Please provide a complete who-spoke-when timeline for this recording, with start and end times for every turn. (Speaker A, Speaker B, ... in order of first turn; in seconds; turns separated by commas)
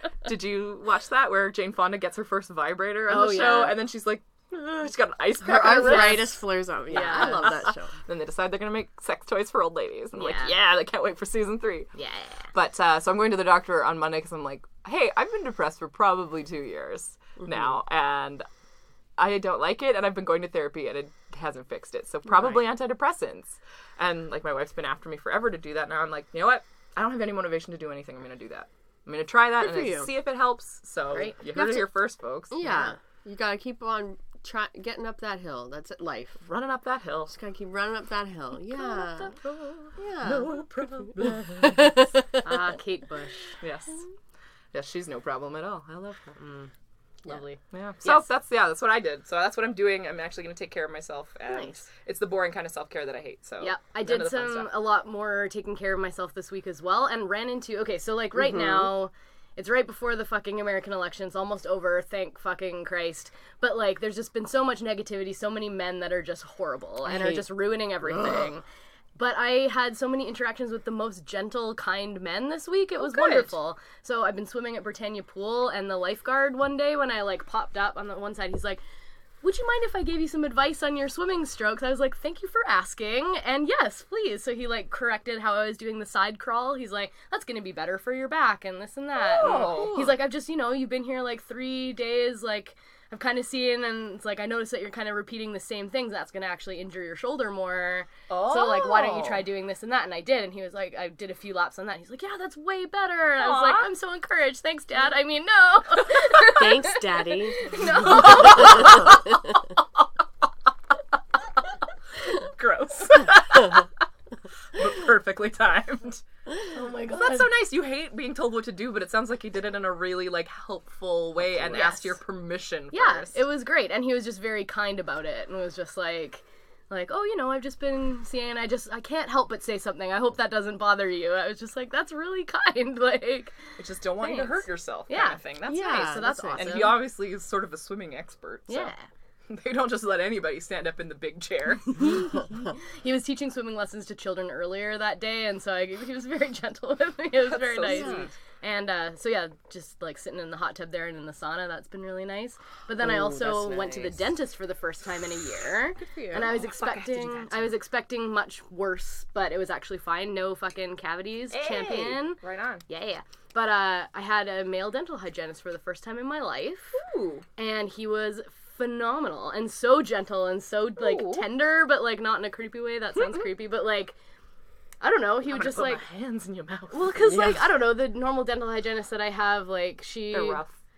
Speaker A: 0.2-6.4, Speaker B: 3.1-3.8, Speaker C: 5.4-7.9, Speaker B: 5.7-6.3, Speaker B: 6.9-7.6, Speaker A: 6.9-11.9, Speaker B: 10.1-10.5, Speaker B: 11.9-12.5, Speaker A: 12.5-18.4, Speaker A: 19.2-32.9, Speaker C: 29.6-30.1, Speaker C: 31.4-31.9, Speaker C: 32.5-36.4, Speaker A: 36.4-37.3, Speaker C: 37.3-39.3, Speaker B: 38.7-39.9, Speaker C: 40.0-40.5, Speaker A: 40.2-42.0, Speaker C: 41.6-42.2, Speaker B: 42.4-43.5, Speaker A: 43.6-44.0, Speaker A: 44.7-46.4, Speaker B: 46.4-46.7, Speaker B: 47.2-48.2, Speaker A: 47.7-54.8, Speaker B: 51.5-51.8, Speaker B: 53.6-68.6, Speaker C: 58.4-58.9, Speaker C: 67.0-67.5, Speaker C: 68.0-68.5, Speaker B: 69.1-78.8, Speaker A: 73.0-73.5, Speaker B: 79.4-109.0, Speaker A: 89.3-90.1, Speaker A: 98.3-99.4, Speaker A: 103.4-103.8, Speaker C: 106.5-109.1, Speaker A: 108.0-109.2, Speaker A: 112.2-113.9, Speaker A: 114.7-116.2, Speaker B: 116.6-117.5, Speaker A: 117.0-123.4, Speaker B: 121.6-122.1, Speaker B: 122.9-133.6, Speaker A: 133.8-138.9, Speaker B: 134.2-137.0, Speaker C: 135.7-136.9, Speaker B: 138.7-139.1, Speaker A: 139.5-142.2, Speaker B: 142.0-167.0, Speaker A: 147.4-148.3, Speaker C: 147.8-148.3, Speaker C: 153.0-154.3, Speaker A: 156.1-157.7, Speaker A: 161.5-162.8, Speaker A: 166.9-167.4, Speaker B: 167.6-174.2, Speaker A: 171.0-171.4, Speaker B: 175.0-176.0, Speaker A: 175.5-177.1, Speaker B: 176.9-180.6, Speaker C: 177.2-177.7, Speaker A: 180.3-180.7